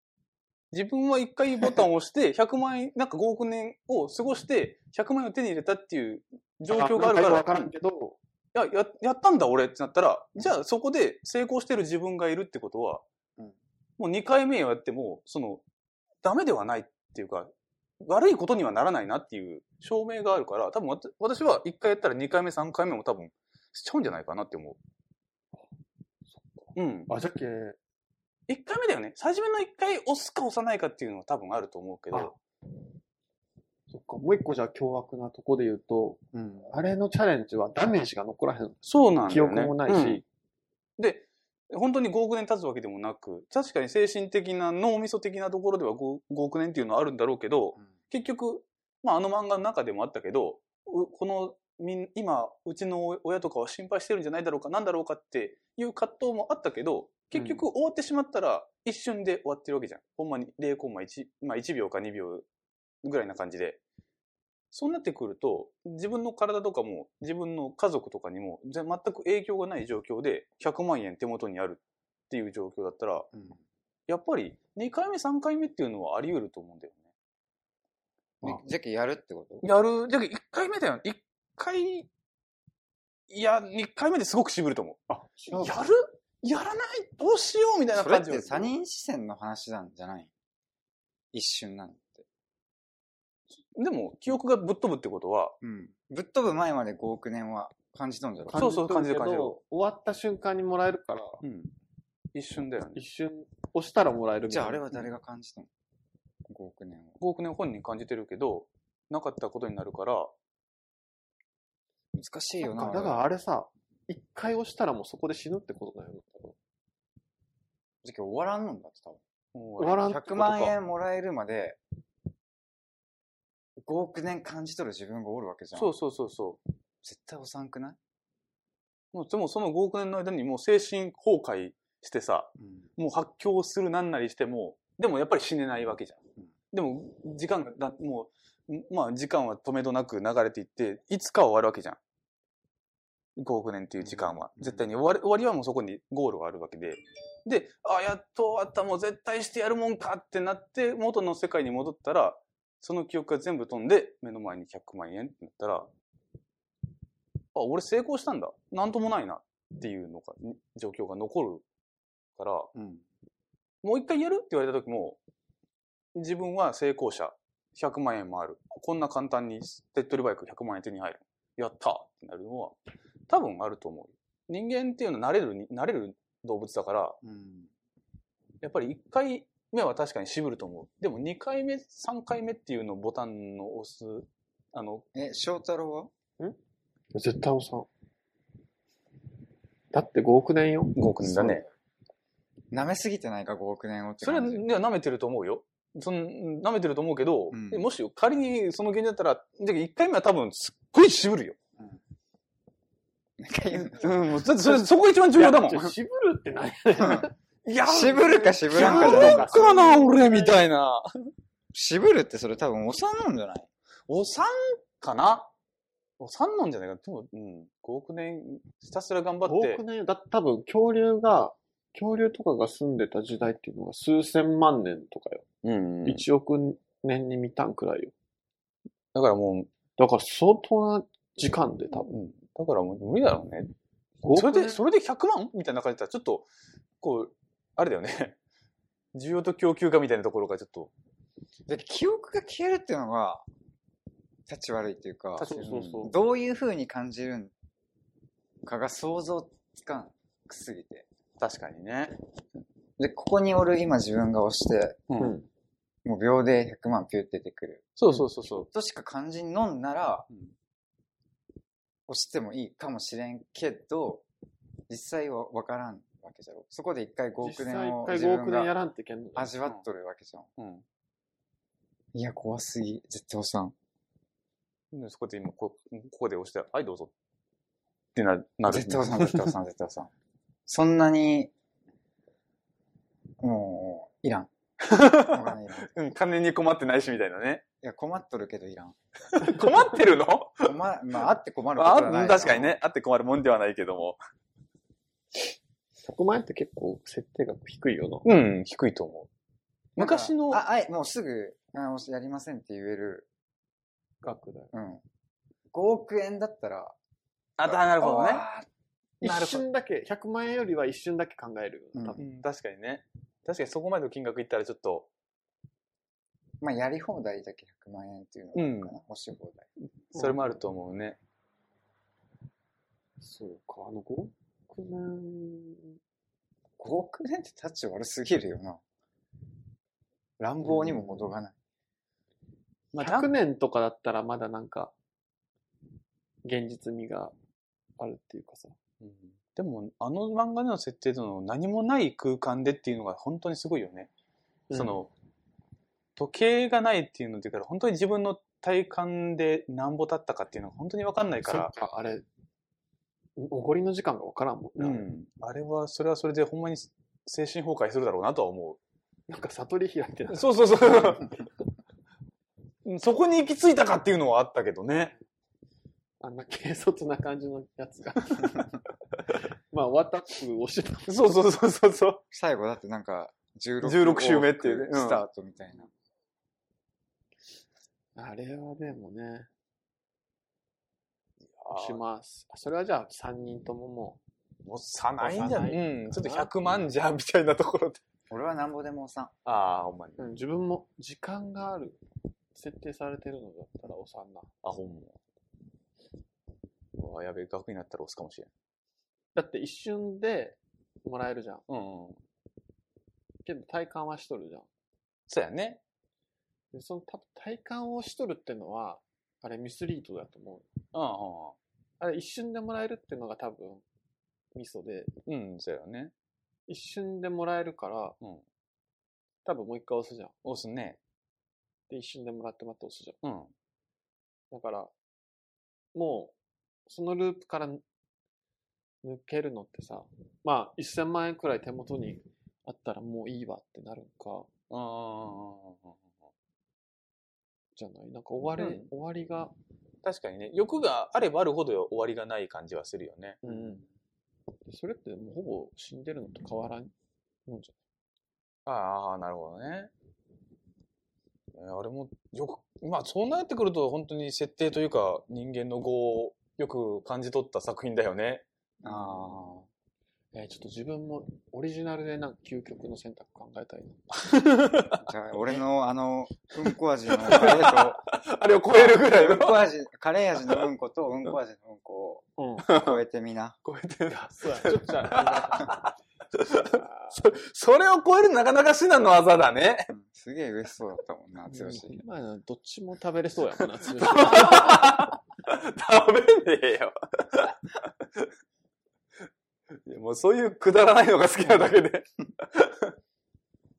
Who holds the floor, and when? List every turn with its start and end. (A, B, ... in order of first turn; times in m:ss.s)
0:00.7-0:07.7 A
0:06.7-0:08.2 B
0:08.5-0:13.0 A
0:14.0-0:15.6 A
0:16.2-0:17.5 A
0:18.0-0:24.8 A
0:26.3-0:27.8 B
0:26.7-0:27.1 A
0:28.5-0:32.3 A
0:33.9-0:40.2 B
0:36.3-0:36.7 C
0:38.8-0:40.2 A
0:41.0-1:02.4 A
1:03.0-1:03.8 A
1:04.7-1:13.3 A
1:13.3-1:13.6 C
1:14.1-1:17.0 A
1:18.4-1:19.6 C
1:19.6-1:22.1 A
1:23.3-1:25.0 A
1:25.1-1:25.8 B
1:25.5-1:28.7 A
1:27.9-1:30.3 C
1:31.3-1:32.2 C
1:33.7-1:35.5 A
1:35.6-1:38.6 C
1:38.5-1:41.4 B
1:38.5-1:39.6 A
1:41.4-1:41.7 A
1:42.3-1:43.0 A
1:42.9-1:45.0 B
1:44.5-1:45.7 C
1:46.4-1:47.2 C
1:47.2-1:50.3 A
1:52.1-1:53.2 C
1:52.6-1:56.6 B
1:58.0-1:59.2 C
1:59.5-2:00.7 A
1:59.8-2:00.5 B
2:00.0-2:01.8 C
2:03.8-2:05.9 C
2:05.7-2:06.6 A
2:07.0-2:08.0 C
2:09.1-2:16.2 A
2:12.6-2:12.8 C
2:16.7-2:22.0 A
2:23.4-2:35.9 A
2:24.0-2:24.8 C
2:37.5-2:41.6 A
2:42.4-2:42.7 A
2:42.7-2:43.0 C
2:43.8-2:45.2 A
2:46.1-2:52.8 A
2:53.3-2:57.2 A
2:57.2-2:57.7 C
2:58.6-3:05.0 A
3:05.1-3:06.1 C
3:07.1-3:07.9 B
3:09.9-3:11.6 B
3:11.0-3:11.6 A
3:12.7-3:14.6 C
3:14.2-3:21.6 A
3:17.5-3:17.9 C
3:23.4-3:24.4 C
3:23.8-3:25.9 A
3:25.3-3:27.3 B
3:27.6-3:31.3 A
3:27.8-3:29.6 C
3:28.1-3:30.6 B
3:31.7-3:33.7 C
3:34.1-3:35.5 A
3:36.2-3:39.8 A
3:39.4-3:45.4 B
3:45.6-3:46.2 A
3:46.0-3:48.1 B
3:49.1-3:49.7 A
3:50.0-3:52.1 B
3:52.0-3:53.7 A
3:54.2-3:54.8 B
3:54.3-3:56.5 A
3:57.0-3:58.4 A
3:59.1-4:00.9 A
4:01.7-4:03.4 C
4:04.5-4:07.5 C
4:05.4-4:06.2 B
4:05.6-4:06.0 A
4:08.6-4:11.0 C
4:11.4-4:12.1 A
4:13.0-4:15.0 C
4:15.1-4:15.3 A
4:15.2-4:15.5 B
4:16.0-4:20.3 C
4:18.0-4:18.7 A
4:22.1-4:24.2 C
4:24.9-4:28.7 C
4:27.4-4:29.5 B
4:29.4-4:30.5 C
4:30.6-4:30.8 A
4:32.1-4:33.7 C
4:34.9-4:37.1 A
4:38.1-4:39.5 A
4:38.7-4:40.1 C
4:40.6-4:41.5 C
4:43.4-4:44.5 C
4:44.8-4:47.6 A
4:45.1-4:45.9 C
4:47.8-4:49.0 C
4:49.3-4:50.7 A
4:50.6-4:52.8 C
4:51.8-4:54.2 A
4:56.0-4:58.3 B
4:58.2-4:59.3 A
5:00.0-5:00.6 A
5:00.0-5:03.3 C
5:04.2-5:04.7 B
5:04.7-5:05.0 C
5:05.7-5:07.0 C
5:07.6-5:08.4 A
5:07.6-5:08.7 C
5:09.2-5:09.6 A
5:09.2-5:12.2 B
5:11.9-5:12.2 C
5:12.2-5:15.1 A
5:16.6-5:19.7 C
5:18.5-5:18.9 A
5:20.1-5:21.2 A
5:20.1-5:20.4 B
5:23.2-5:26.0 B
5:26.8-5:28.8 C
5:30.4-5:31.5 C
5:30.6-5:31.2 B
5:32.9-5:33.3 A
5:33.0-5:34.9 B
5:36.4-5:37.3 B
5:38.0-5:38.8 B
5:39.0-5:44.1 A
5:44.7-5:45.0 B
5:44.7-5:45.1 A
5:46.2-5:51.7 A
5:51.4-5:52.2 B
5:53.4-5:55.0 B
5:54.8-5:58.8 A
5:59.3-6:01.2 B
6:00.3-6:01.4 A
6:02.8-6:05.1 A
6:06.2-6:08.7 B
6:09.7-6:11.4 B
6:11.1-6:12.2 A
6:12.3-6:15.9 C
6:13.8-6:15.2 A
6:18.2-6:19.5 B
6:21.5-6:22.0 A
6:21.7-6:24.2 B
6:24.6-6:28.0 A
6:25.2-6:26.5 B
6:28.3-6:29.3 C
6:29.4-6:30.2 A
6:30.2-6:32.0 B
6:32.5-6:34.5 B
6:34.6-6:35.2 A
6:36.9-6:38.5 A
6:39.3-6:41.6 B
6:41.7-6:42.2 A
6:43.4-6:44.7 B
6:45.3-6:45.8 A
6:46.7-6:50.7 B
6:50.9-6:51.6 A
6:52.0-6:53.8 B
6:54.5-6:55.2 B
6:55.3-6:56.1 A
6:56.7-6:58.2 B
6:59.4-7:00.3 B
7:00.4-7:01.0 A
7:01.9-7:03.2 B
7:03.2-7:03.5 A
7:04.5-7:04.9 B
7:05.9-7:06.3 B
7:06.9-7:07.8 B
7:09.0-7:14.5 B
7:14.7-7:15.9 A
7:17.8-7:19.5 B
7:18.6-7:18.9 A
7:20.0-7:23.4 A
7:23.4-7:23.8 B
7:24.6-7:26.9 B
7:27.4-7:27.8 B
7:28.6-7:29.9 A
7:31.5-7:39.4 A
7:38.8-7:39.6 C
7:40.3-7:44.0 B
7:44.1-7:45.0 A
7:45.0-7:48.1 C
7:47.2-7:49.7 A
7:48.7-7:53.6 C
7:52.4-7:52.8 B
7:52.6-7:53.0 A
7:53.6-7:59.9 A
7:54.1-7:55.8 B
7:56.5-7:57.2 B
7:59.9-8:02.0 C
8:01.5-8:05.1 B
8:04.0-8:08.3 A
8:09.8-8:12.9 A